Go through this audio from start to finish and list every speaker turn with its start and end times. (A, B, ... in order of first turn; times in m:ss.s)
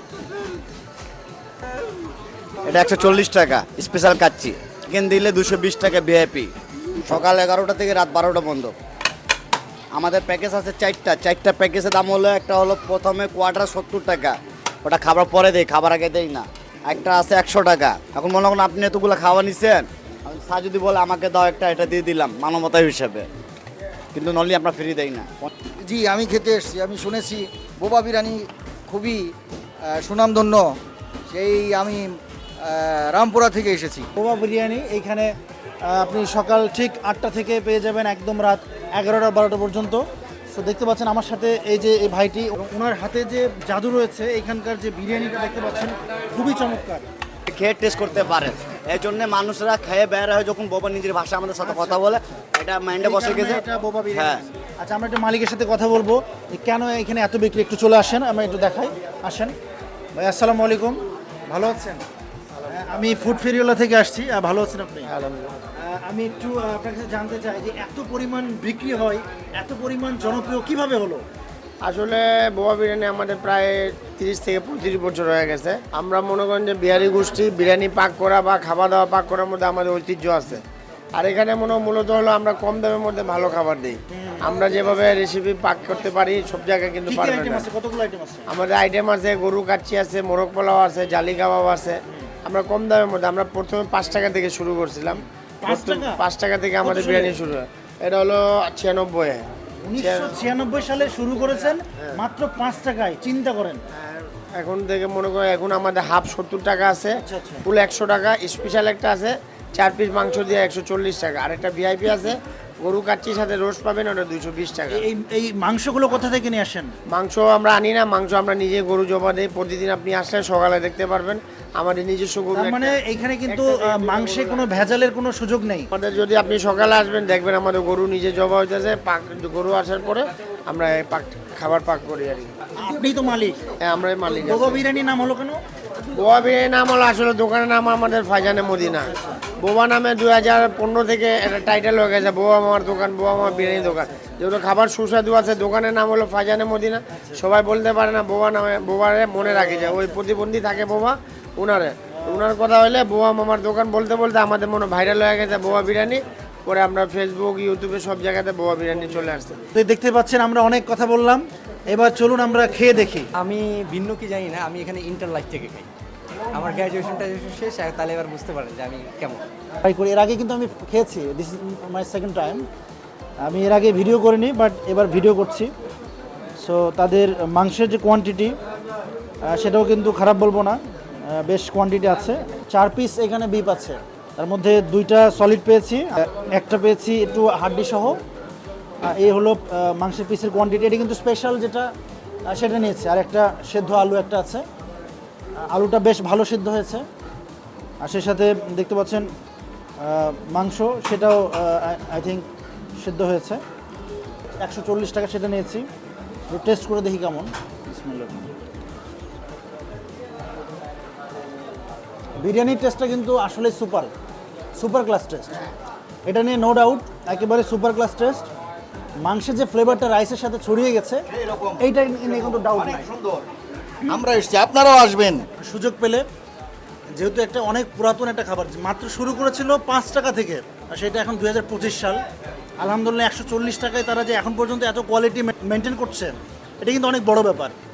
0:02.6-0:06.5 A
0:07.0-0:08.7 A
0:09.9-0:23.3 A
0:24.1-0:25.5 A
0:25.8-0:29.3 B
0:29.9-0:30.8 B
0:31.3-0:32.0 B
0:32.6-0:34.1 B
0:34.2-0:35.3 C
0:35.8-0:47.0 C
0:47.5-0:54.4 A
0:51.6-0:52.3 C
0:53.0-0:59.5 C
1:00.2-1:02.0 C
1:02.7-1:05.1 C
1:05.0-1:05.5 D
1:05.8-1:11.2 C
1:11.8-1:20.6 D
1:21.2-1:27.6 D
1:24.1-1:24.5 C
1:27.1-1:28.5 C
1:28.5-1:39.4 D
1:35.6-1:36.2 C
1:36.8-1:37.4 C
1:39.8-1:43.8 C
1:40.0-1:40.4 D
1:44.0-1:55.0 D
1:47.2-1:47.6 C
1:54.9-1:56.9 C
1:57.1-2:03.0 D
2:02.5-2:05.9 C
2:03.5-2:04.7 D
2:05.9-2:12.5 D
2:12.8-2:13.6 C
2:13.9-2:14.8 D
2:14.3-2:15.6 C
2:16.1-2:39.6 D
2:23.5-2:24.3 C
2:27.1-2:27.4 C
2:29.6-2:30.2 C
2:32.1-2:32.4 C
2:39.7-2:43.3 C
2:43.3-2:45.9 E
2:46.5-2:49.4 E
2:49.8-2:52.6 C
2:53.4-2:55.7 C
2:56.6-2:58.6 C
2:59.4-3:08.2 C
3:09.0-3:11.9 C
3:12.4-3:14.6 C
3:15.7-3:17.0 C
3:18.0-3:19.3 C
3:20.0-3:22.4 C
3:23.0-3:23.6 C
3:24.6-3:25.9 C
3:26.5-3:28.5 C
3:32.4-3:34.1 C
3:34.8-3:35.6 C
3:36.2-3:38.5 C
3:39.2-3:41.2 C
3:41.4-3:41.8 B
3:41.8-3:43.1 C
3:43.0-3:43.4 B
3:44.1-3:45.4 B
3:45.6-3:46.2 C
3:47.1-3:52.2 C
3:52.8-3:57.7 C